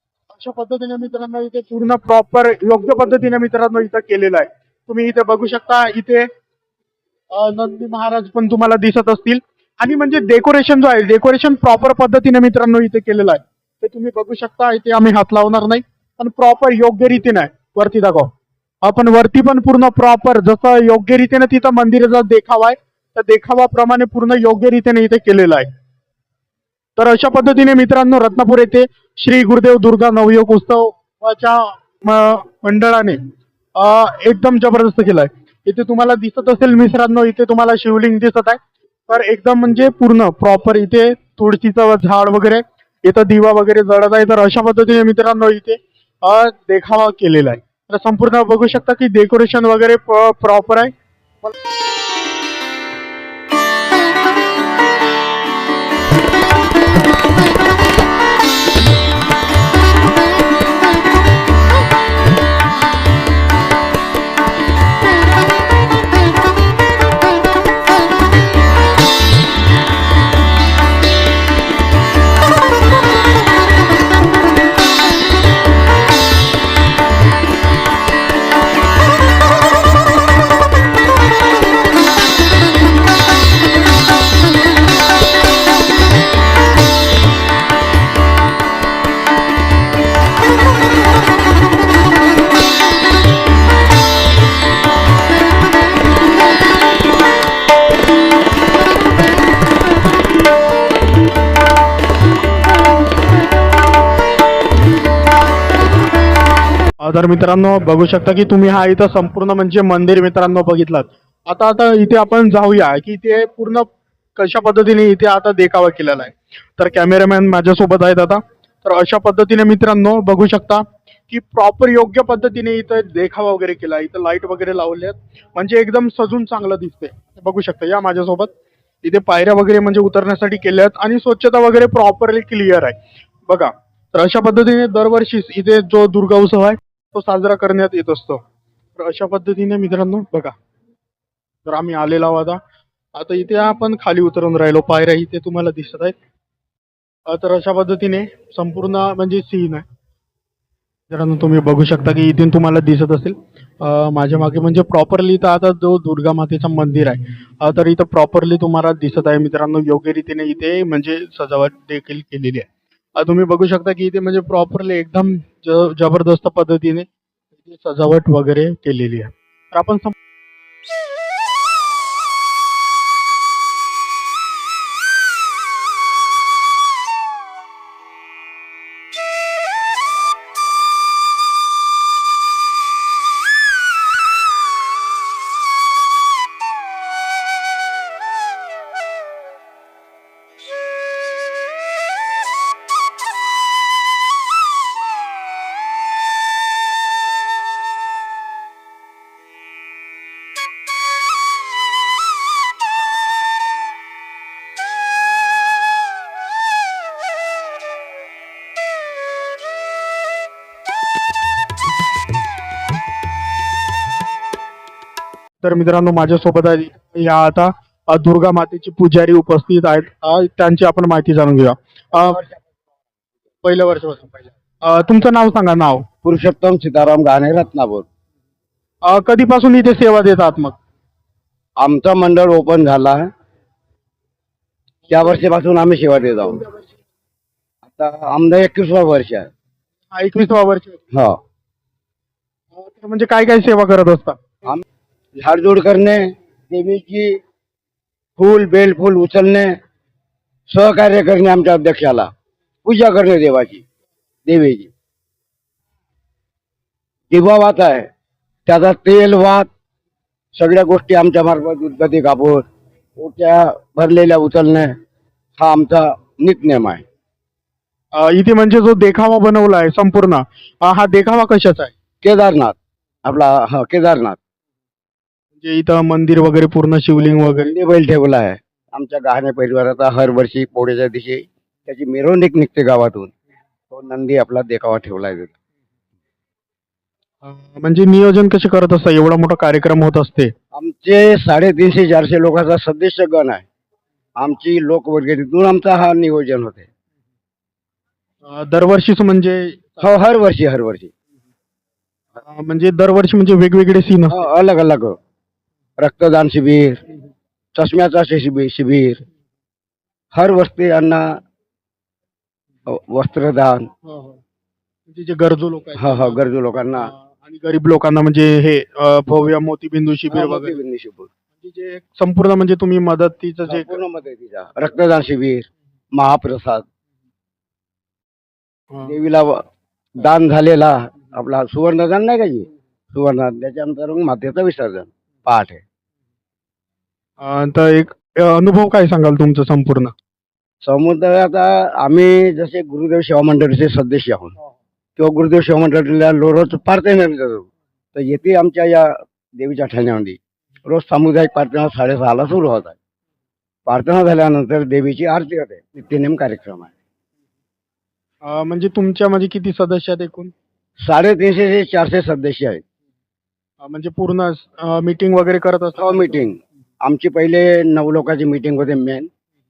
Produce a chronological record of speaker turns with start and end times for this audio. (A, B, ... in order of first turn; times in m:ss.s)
0:00.3-0:06.3 A
0:07.3-0:18.3 A
0:18.8-0:25.7 A
0:27.0-0:33.2 A
0:33.8-0:50.9 A
1:47.0-2:08.5 A
2:09.0-2:13.0 A
2:13.5-2:18.4 A
2:19.0-2:20.5 A
2:21.6-2:22.6 A
2:23.1-2:26.2 A
2:27.3-2:29.8 A
2:31.1-2:47.1 A
2:47.6-2:50.1 A
3:35.6-3:42.4 A
3:42.1-3:42.5 B
3:43.6-3:46.0 A
3:46.2-3:48.0 B
3:49.0-3:50.8 A
3:51.8-3:53.2 B
3:55.1-3:56.6 B
3:57.8-3:59.5 B
4:00.1-4:01.0 A
4:01.1-4:01.4 B
4:02.7-4:04.4 A
4:05.4-4:07.4 B
4:08.4-4:09.8 B
4:10.7-4:12.3 B
4:12.8-4:13.8 B
4:14.5-4:14.9 B
4:17.3-4:18.1 B
4:18.6-4:19.7 B
4:20.5-4:22.6 B
4:23.2-4:25.0 B
4:25.6-4:27.0 B
4:28.1-4:31.9 A
4:32.2-4:34.4 B
4:35.6-4:37.7 A
4:37.2-4:43.3 B
4:43.9-4:45.5 B
4:47.4-4:50.5 A
4:50.7-4:53.6 B
4:54.4-4:56.9 B
4:58.4-4:59.8 A
5:00.0-5:01.1 B
5:02.4-5:04.4 A
5:04.3-5:05.2 B
5:06.0-5:07.0 B
5:07.7-5:09.2 B
5:10.3-5:11.4 B
5:12.8-5:13.9 B
5:14.0-5:14.4 A
5:15.1-5:16.4 A
5:16.0-5:17.1 B
5:17.0-5:20.8 A
5:20.3-5:21.3 B
5:21.6-5:23.9 A
5:23.6-5:26.8 B
5:29.0-5:29.6 B
5:30.2-5:35.8 B
5:37.4-5:40.1 A
5:40.8-5:44.5 B
5:45.2-5:53.0 B
5:53.8-5:56.9 B
5:58.4-6:00.5 A
6:01.0-6:02.8 B
6:03.8-6:06.4 A
6:06.0-6:09.3 B